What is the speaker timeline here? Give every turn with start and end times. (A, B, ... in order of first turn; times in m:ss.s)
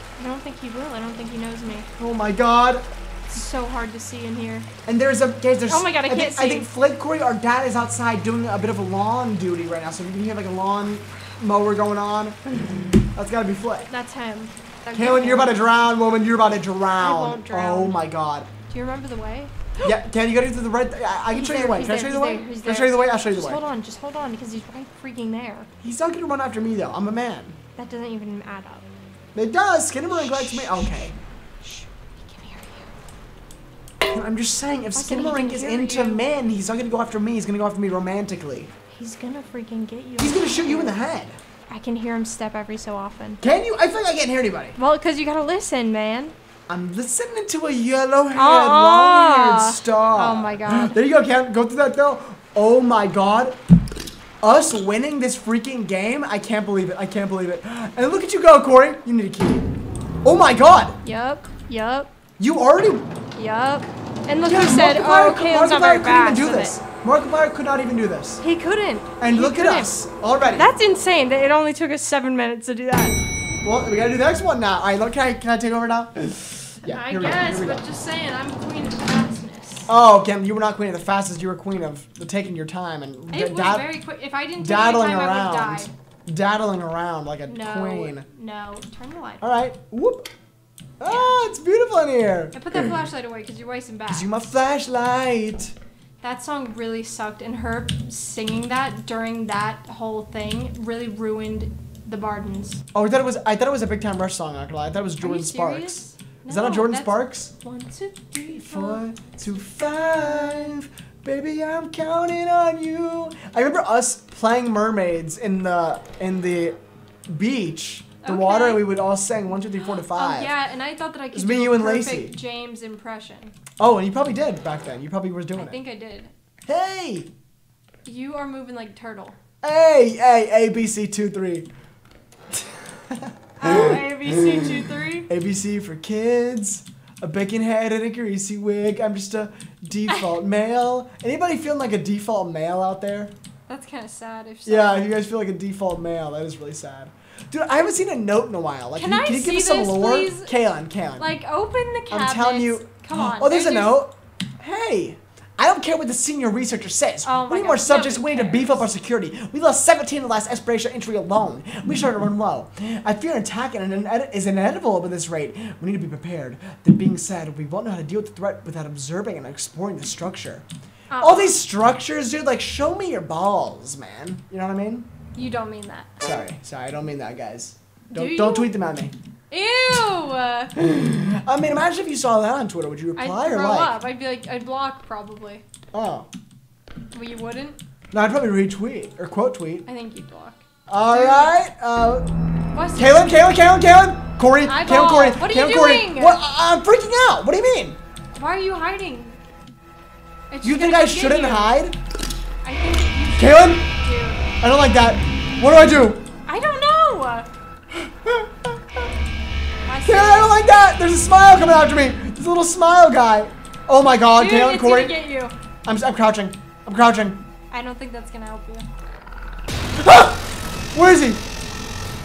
0:00.2-0:01.9 A
0:02.0-0:02.8 B
0:03.3-0:04.7 A
0:04.9-0:13.9 B
0:05.7-0:06.7 A
0:13.9-0:15.6 A
0:14.9-0:18.5 B
0:17.0-0:18.0 A
0:18.7-0:19.9 A
0:19.8-0:23.6 B
0:21.3-0:25.7 A
0:25.8-0:27.6 B
0:27.8-0:28.9 A
0:29.4-0:31.2 B
0:30.1-0:32.9 A
0:34.0-0:38.7 B
0:35.0-0:36.3 A
0:38.9-0:41.0 A
0:40.2-0:41.4 B
0:41.7-0:43.4 A
0:43.4-0:44.8 B
0:44.8-0:46.4 A
0:46.7-0:53.6 B
0:48.4-0:51.0 A
0:54.4-0:59.7 B
1:00.2-1:01.0 B
1:01.0-1:02.1 A
1:02.4-1:03.1 B
1:03.4-1:06.8 A
1:04.5-1:08.4 B
1:08.4-1:09.9 A
1:09.2-1:10.7 B
1:10.5-1:13.2 A
1:13.6-1:17.9 B
1:16.8-1:19.9 A
1:19.9-1:23.9 B
1:23.3-1:25.9 A
1:24.6-1:28.3 B
1:27.5-1:29.4 A
1:29.4-1:30.3 B
1:31.0-1:32.9 B
1:31.0-1:31.4 A
1:32.5-1:34.3 A
1:34.1-1:35.8 B
1:36.2-1:42.8 A
1:42.9-1:47.5 B
1:45.2-1:49.0 A
1:48.6-2:00.5 B
1:50.0-1:50.7 A
1:58.2-1:58.9 A
2:00.0-2:03.5 A
2:01.3-2:02.4 B
2:03.8-2:05.8 B
2:05.6-2:06.3 A
2:06.7-2:07.3 B
2:08.0-2:09.4 A
2:09.6-2:11.7 B
2:12.5-2:23.3 B
2:13.6-2:15.3 A
2:23.7-2:25.2 A
2:24.7-2:31.3 B
2:29.0-2:30.5 A
2:31.2-2:34.0 A
2:32.1-2:50.7 B
2:37.2-2:38.9 A
2:51.1-2:51.6 A
2:51.2-2:55.1 B
2:55.4-2:56.2 A
2:56.2-2:59.1 B
2:58.1-2:58.7 A
2:59.5-3:00.8 A
3:00.8-3:03.9 B
3:03.2-3:05.6 A
3:05.9-3:06.3 B
3:07.1-3:07.8 A
3:08.1-3:09.9 B
3:09.9-3:11.6 A
3:10.9-3:12.3 B
3:12.7-3:13.4 A
3:13.0-3:18.0 B
3:14.6-3:16.4 A
3:18.4-3:19.4 A
3:20.5-3:21.8 A
3:20.6-3:22.0 B
3:22.6-3:24.5 A
3:23.4-3:23.9 B
3:24.6-3:26.2 B
3:26.5-3:27.5 A
3:27.9-3:29.1 B
3:29.8-3:31.0 A
3:30.1-3:35.2 B
3:34.3-3:35.5 A
3:35.8-3:37.4 B
3:37.7-3:38.9 A
3:40.0-3:41.4 B